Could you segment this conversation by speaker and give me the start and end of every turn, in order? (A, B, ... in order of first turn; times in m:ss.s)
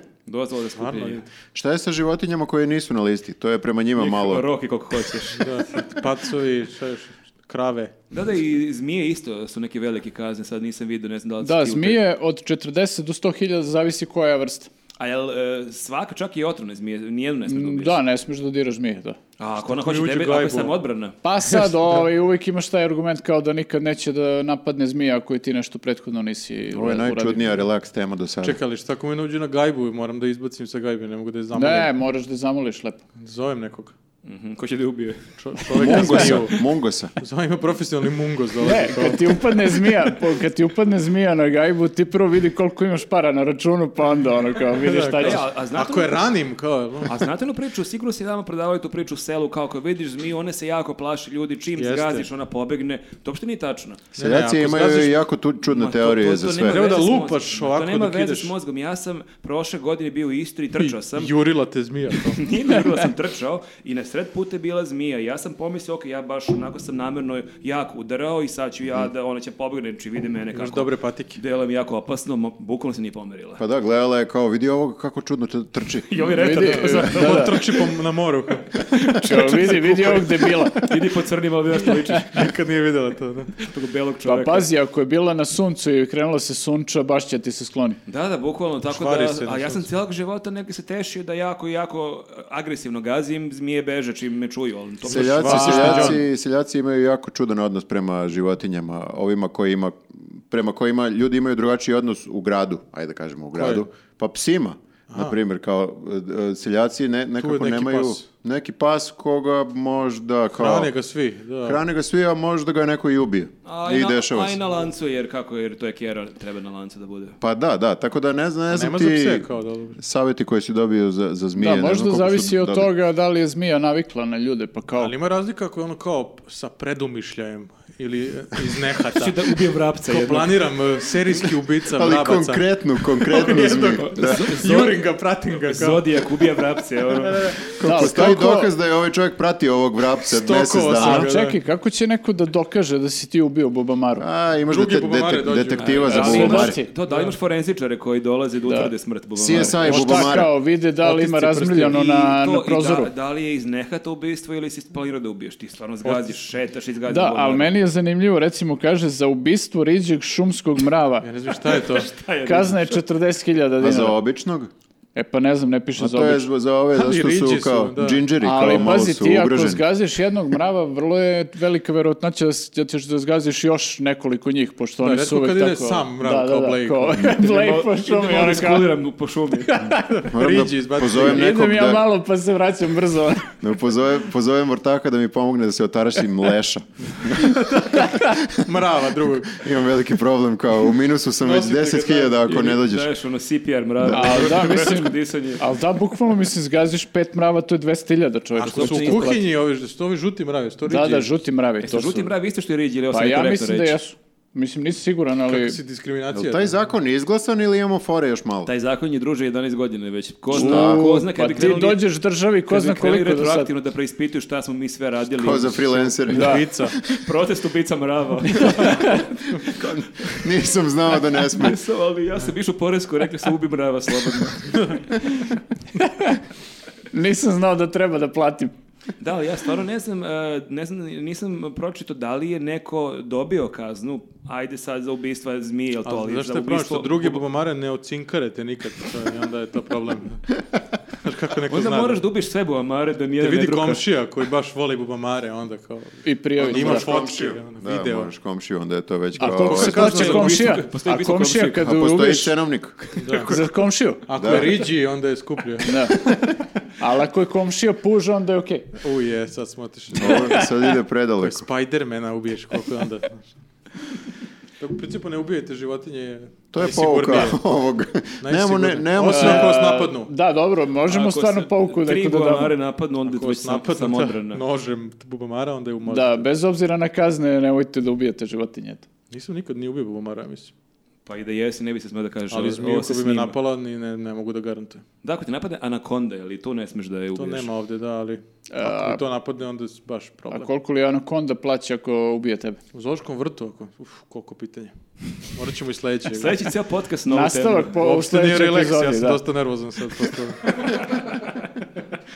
0:00.2-0:01.2 A
0:00.8-0:01.2 B
0:01.5-0:04.4 C
0:04.0-0:05.8 A
0:05.3-0:07.9 B
0:08.1-0:12.0 A
0:11.4-0:14.7 D
0:15.0-0:18.0 A
0:17.5-0:19.2 D
0:19.4-0:21.1 A
0:19.6-0:20.8 B
0:21.2-0:27.6 D
0:26.7-0:28.6 C
0:28.4-0:31.9 B
0:31.5-0:33.0 D
0:33.2-0:33.9 B
0:34.2-0:35.2 A
0:35.4-0:36.6 B
0:35.7-0:37.1 C
0:35.7-0:36.4 D
0:37.2-0:39.9 B
0:38.6-0:45.4 D
0:44.8-0:47.2 B
0:45.2-0:46.2 A
0:47.0-0:54.0 A
0:51.8-0:52.3 B
0:54.1-0:55.1 B
0:54.2-0:56.8 C
0:55.6-1:01.3 A
0:56.7-0:58.5 B
1:00.8-1:02.4 B
1:02.1-1:13.6 A
1:10.5-1:11.4 B
1:13.6-1:16.3 C
1:16.1-1:18.0 A
1:16.4-1:17.6 D
1:16.7-1:20.8 B
1:19.0-1:20.2 A
1:19.2-1:20.9 D
1:20.7-1:22.5 A
1:22.3-1:23.6 B
1:23.6-1:24.7 A
1:24.2-1:28.0 D
1:28.1-1:35.8 A
1:28.9-1:29.8 B
1:35.0-1:36.2 B
1:35.1-1:50.9 C
1:35.4-1:36.2 D
1:43.5-1:43.8 B
1:45.1-1:45.4 B
1:47.4-1:48.2 B
1:50.5-1:51.8 B
1:51.6-1:54.6 C
1:53.6-1:57.4 A
1:57.4-2:02.9 C
1:58.7-2:00.0 B
2:01.5-2:05.1 D
2:05.0-2:16.0 B
2:09.1-2:10.6 A
2:11.9-2:14.4 C
2:14.0-2:15.0 A
2:15.6-2:17.6 A
2:17.2-2:17.6 B
2:17.8-2:21.3 C
2:17.8-2:18.7 D
2:20.3-2:21.6 B
2:20.9-2:24.2 D
2:24.2-2:26.8 C
2:24.7-2:27.3 B
2:25.8-2:30.0 A
2:26.1-2:26.9 D
2:28.6-2:28.9 D
2:29.4-2:30.5 C
2:29.5-2:33.1 D
2:29.8-2:30.5 B
2:31.0-2:32.0 B
2:31.9-2:37.7 A
2:36.0-2:36.4 B
2:37.0-2:41.3 D
2:41.2-2:42.1 B
2:41.5-2:43.0 A
2:42.4-2:44.2 D
2:43.8-2:44.7 C
2:45.1-2:46.5 D
2:46.0-2:49.8 C
2:46.9-2:48.3 B
2:48.4-2:58.9 D
2:55.0-2:57.4 B
2:57.2-2:59.8 A
2:59.6-3:00.3 D
3:00.2-3:01.5 B
3:00.3-3:02.0 C
3:01.2-3:03.5 D
3:03.6-3:08.6 C
3:07.4-3:09.6 B
3:09.5-3:13.1 C
3:11.4-3:12.6 B
3:12.5-3:15.6 A
3:14.1-3:19.4 D
3:18.6-3:21.3 B
3:18.7-3:19.4 A
3:20.9-3:22.3 D
3:21.8-3:24.0 A
3:23.1-3:25.8 D
3:25.5-3:26.7 B
3:26.3-3:28.7 C
3:28.7-3:32.0 A
3:30.5-3:31.0 C
3:30.5-3:33.7 D
3:32.7-3:36.2 A
3:35.3-3:37.2 C
3:36.1-3:37.0 B
3:36.3-3:36.6 D
3:37.1-3:40.4 A
3:38.6-3:39.2 D
3:39.8-3:41.8 C
3:41.4-3:45.6 A
3:46.0-3:46.4 D
3:47.1-3:48.7 D
3:49.2-3:57.4 A
3:56.0-4:00.5 B
4:01.2-4:02.2 B
4:01.7-4:04.0 A
4:03.4-4:08.3 B
4:06.2-4:07.1 D
4:06.7-4:10.2 C
4:09.4-4:12.5 D
4:09.4-4:10.8 B
4:09.9-4:11.8 A
4:11.8-4:13.5 C
4:13.2-4:13.5 B
4:13.5-4:14.7 D
4:14.3-4:16.0 B
4:14.3-4:14.8 C
4:15.8-4:16.2 D
4:17.0-4:18.9 D
4:19.0-4:20.9 B
4:20.1-4:21.6 C
4:21.4-4:23.5 B
4:24.8-4:27.6 B
4:26.7-4:29.8 C
4:28.4-4:30.3 B
4:29.3-4:32.7 D
4:31.1-4:34.6 A
4:33.3-4:36.5 B
4:36.0-4:39.0 D
4:39.3-4:40.7 B
4:41.2-4:43.6 A
4:42.5-4:45.0 B
4:45.2-4:47.7 A
4:47.3-4:50.7 B
4:48.7-4:49.2 D
4:50.5-4:52.8 D
4:52.9-4:54.9 B
4:55.5-4:56.6 B
4:56.3-4:58.0 A
4:57.3-4:59.4 D
4:57.9-5:00.7 B
5:00.9-5:01.4 A